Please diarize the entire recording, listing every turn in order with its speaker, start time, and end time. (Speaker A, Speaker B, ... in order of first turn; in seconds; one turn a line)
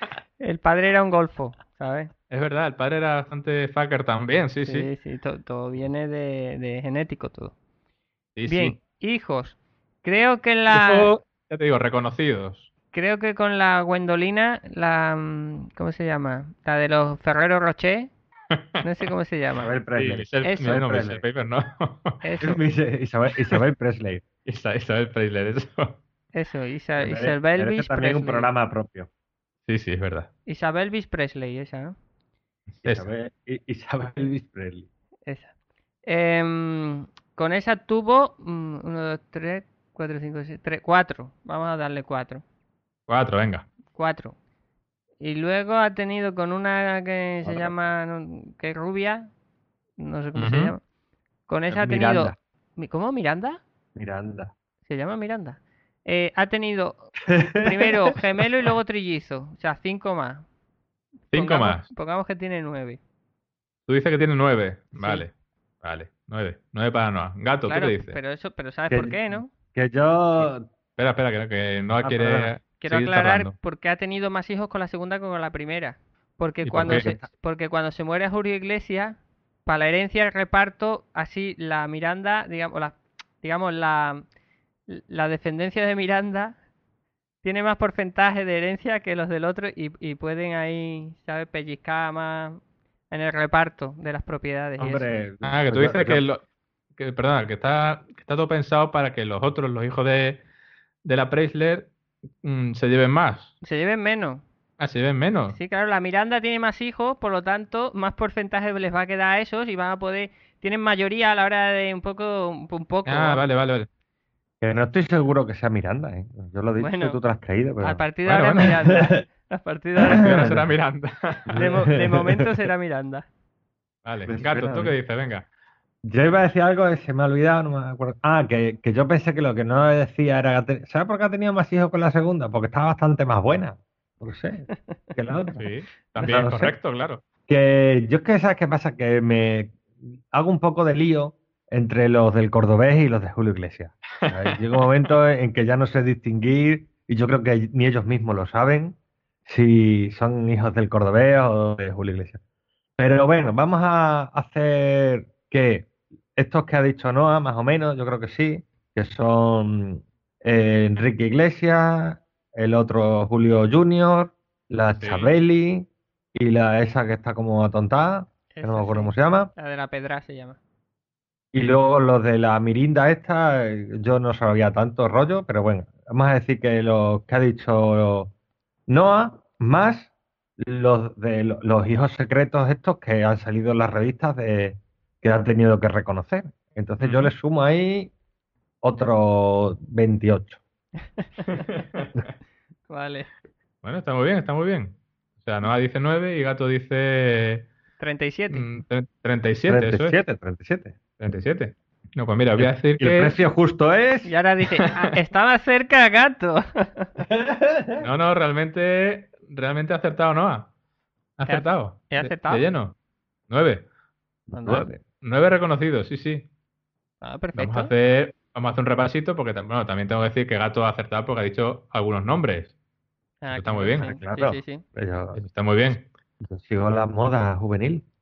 Speaker A: 0.4-2.1
Speaker B: 2.3-4.9
Speaker A: 4.6-7.5
Speaker B: 8.3-8.8
Speaker A: 8.5-11.1
Speaker B: 10.7-12.7
Speaker A: 12.9-18.1
Speaker A: 18.8-19.7
Speaker C: 19.6-21.2
Speaker B: 19.9-22.2
Speaker A: 20.4-20.8
Speaker A: 22.2-22.6
Speaker C: 22.4-24.2
Speaker B: 24.4-26.0
Speaker A: 26.3-28.5
Speaker C: 27.0-29.1
Speaker B: 29.7-30.3
Speaker A: 30.5-31.9
Speaker B: 32.8-33.1
Speaker C: 32.8-34.9
Speaker A: 35.2-35.5
Speaker A: 36.0-42.4
Speaker B: 43.1-43.7
Speaker A: 43.9-44.4
Speaker A: 45.2-49.3
Speaker C: 47.5-47.7
Speaker A: 50.0-50.8
Speaker B: 50.4-50.7
Speaker A: 51.5-53.6
Speaker C: 51.7-52.4
Speaker C: 53.9-54.5
Speaker A: 54.9-60.4
Speaker C: 57.3-57.9
Speaker A: 61.3-63.0
Speaker B: 61.3-61.9
Speaker B: 63.9-68.2
Speaker A: 64.9-65.2
Speaker A: 67.7-69.5
Speaker C: 68.9-70.7
Speaker B: 70.4-73.5
Speaker C: 72.0-72.5
Speaker A: 72.8-84.2
Speaker B: 76.6-77.0
Speaker C: 76.8-77.3
Speaker A: 84.9-86.6
Speaker A: 87.4-95.1
Speaker C: 94.8-96.2
Speaker B: 95.4-96.4
Speaker B: 97.0-100.4
Speaker B: 101.0-101.9
Speaker B: 102.4-103.5
Speaker A: 103.6-104.4
Speaker B: 104.8-105.6
Speaker A: 105.5-113.4
Speaker B: 113.0-113.9
Speaker C: 114.6-118.0
Speaker A: 116.8-117.2
Speaker A: 117.8-120.6
Speaker B: 118.2-118.8
Speaker C: 118.8-119.2
Speaker C: 120.0-120.6
Speaker B: 120.1-121.7
Speaker C: 121.5-122.4
Speaker A: 121.6-123.2
Speaker B: 124.0-125.5
Speaker C: 124.2-124.9
Speaker C: 126.0-135.7
Speaker B: 135.6-137.2
Speaker C: 136.2-136.7
Speaker C: 137.5-139.8
Speaker C: 140.3-152.4
Speaker B: 144.3-144.5
Speaker C: 153.0-169.5
Speaker B: 164.9-165.3
Speaker A: 168.5-170.6
Speaker C: 171.5-178.3
Speaker C: 178.9-188.1
Speaker B: 187.0-187.3
Speaker C: 188.8-190.6
Speaker A: 191.2-191.6
Speaker B: 191.6-192.1
Speaker A: 192.9-193.3
Speaker B: 193.8-197.7
Speaker A: 198.0-198.7
Speaker B: 198.5-200.2
Speaker C: 199.7-200.9
Speaker B: 201.2-203.3
Speaker C: 202.6-204.3
Speaker A: 204.2-207.1
Speaker C: 207.2-208.1
Speaker B: 208.0-210.7
Speaker B: 211.4-212.9
Speaker A: 211.4-212.6
Speaker B: 213.5-213.8
Speaker C: 214.5-215.0
Speaker A: 214.5-214.9
Speaker B: 215.2-216.5
Speaker A: 217.2-217.9
Speaker B: 217.6-222.7
Speaker A: 223.4-224.8
Speaker B: 223.5-224.1
Speaker C: 223.9-225.4
Speaker B: 225.3-226.1
Speaker C: 226.4-228.1